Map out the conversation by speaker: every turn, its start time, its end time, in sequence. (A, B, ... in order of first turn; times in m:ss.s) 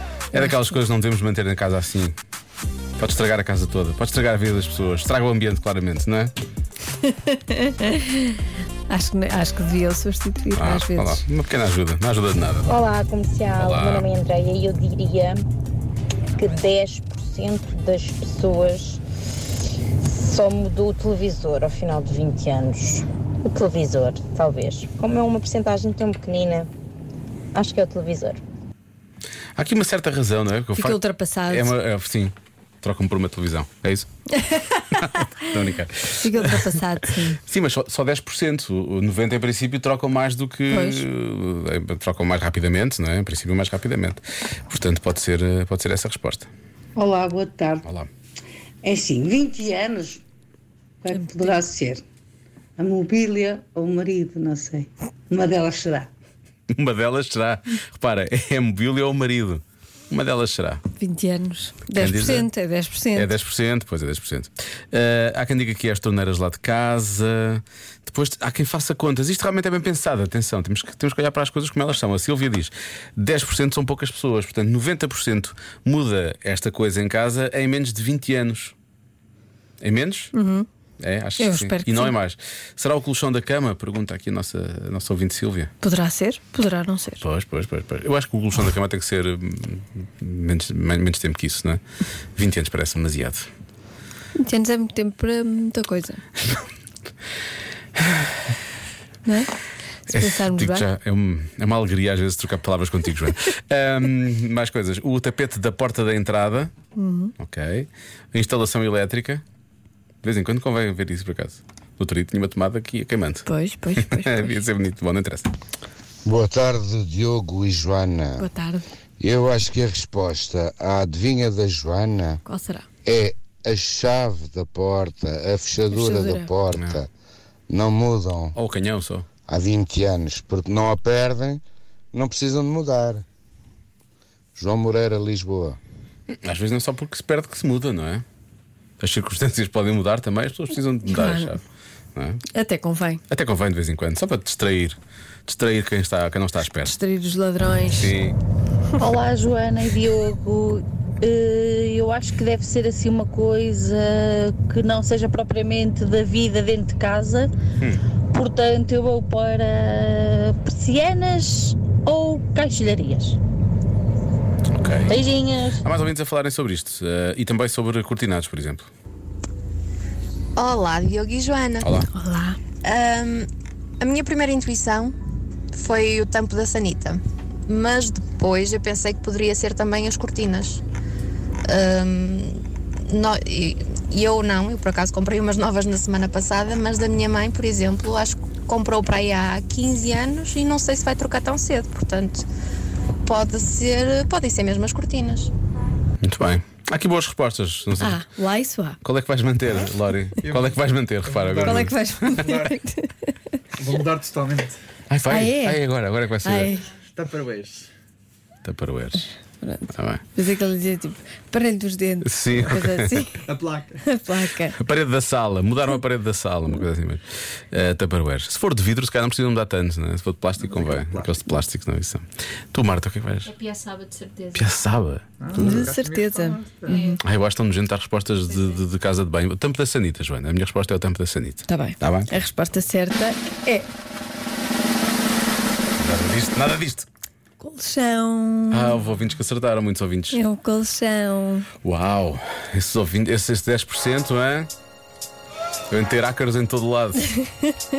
0:00.3-0:00.6 A
0:00.3-0:02.1 B
0:03.0-0:06.3 B
0:07.1-0:08.3 A
0:08.9-0:11.2 A
0:10.6-0:12.8 B
0:12.7-0:15.4 C
0:13.6-0:14.0 B
0:16.4-0:19.0 C
0:20.0-0:26.7 C
0:27.5-0:28.4 C
0:29.6-0:34.1 B
0:30.7-0:31.7 A
0:34.4-0:35.3 A
0:35.0-0:36.7 B
0:36.2-0:37.4 A
0:37.5-0:46.5 B
0:40.7-0:41.1 A
0:47.0-0:47.8 D
0:48.8-0:49.6 D
0:48.8-0:50.2 E
0:51.1-0:51.6 A
0:51.2-0:52.0 D
0:52.8-0:56.1 E
0:53.2-0:54.4 D
0:56.7-1:00.8 B
1:01.0-1:03.3 A
1:01.9-1:02.5 B
1:03.1-1:18.7 B
1:19.8-1:20.3 B
1:20.3-1:20.7 A
1:21.0-1:25.7 B
1:21.4-1:22.1 A
1:25.8-1:27.2 A
1:27.2-1:31.8 B
1:32.4-1:33.5 B
1:34.4-1:36.2 A
1:39.2-1:39.5 A
1:40.0-1:40.9 A
1:40.1-1:46.7 B
1:46.9-1:47.3 A
1:47.4-1:49.4 B
1:50.2-1:53.4 B
1:53.4-1:54.5 A
1:54.0-1:55.5 B
1:56.2-1:58.5 F
1:58.4-1:58.8 A
1:59.2-2:02.4 F
2:02.4-2:02.8 A
2:03.0-2:07.1 F
2:05.9-2:06.5 A
2:06.7-2:07.0 B
2:07.7-2:08.5 F
2:08.5-2:09.3 B
2:09.5-2:11.6 F
2:12.1-2:13.2 F
2:14.6-2:15.8 F
2:16.4-2:18.2 B
2:19.0-2:21.6 B
2:21.0-2:21.6 A
2:22.2-2:22.4 B
2:22.5-2:23.2 A
2:23.3-2:27.0 B
2:26.8-2:28.1 A
2:27.9-2:28.4 B
2:29.0-2:37.5 D
2:38.3-2:43.4 D
2:44.7-2:45.2 B
2:45.1-2:45.8 D
2:45.8-2:48.9 B
2:50.6-2:51.9 G
2:51.8-2:52.1 B
2:52.1-2:52.6 A
2:52.8-2:53.5 G
2:54.0-2:55.1 G
2:55.7-3:00.8 G
3:01.6-3:12.4 G
3:13.2-3:15.5 G
3:16.2-3:18.2 B
3:18.0-3:19.0 A
3:19.0-3:21.9 B
3:21.6-3:23.3 A
3:23.8-3:24.7 H
3:25.1-3:26.7 B
3:25.3-3:25.8 A
3:26.4-3:26.9 A
3:27.2-3:27.7 H
3:28.6-3:29.3 B
3:29.6-3:33.4 A
3:29.9-3:30.2 B
3:32.2-3:33.2 B
3:33.4-3:34.0 H
3:34.0-3:34.8 A
3:34.8-3:43.5 B
3:43.4-3:44.7 I
3:44.5-3:45.9 B
3:45.4-3:47.0 H
3:45.5-3:46.6 A
3:46.9-3:47.2 I
3:47.2-3:52.3 B
3:48.3-3:48.8 I
3:51.7-3:53.9 A
3:56.0-3:57.0 B
3:57.6-3:58.9 A
3:58.7-4:00.4 B
4:00.3-4:01.7 A
4:01.8-4:04.7 B
4:05.9-4:07.2 B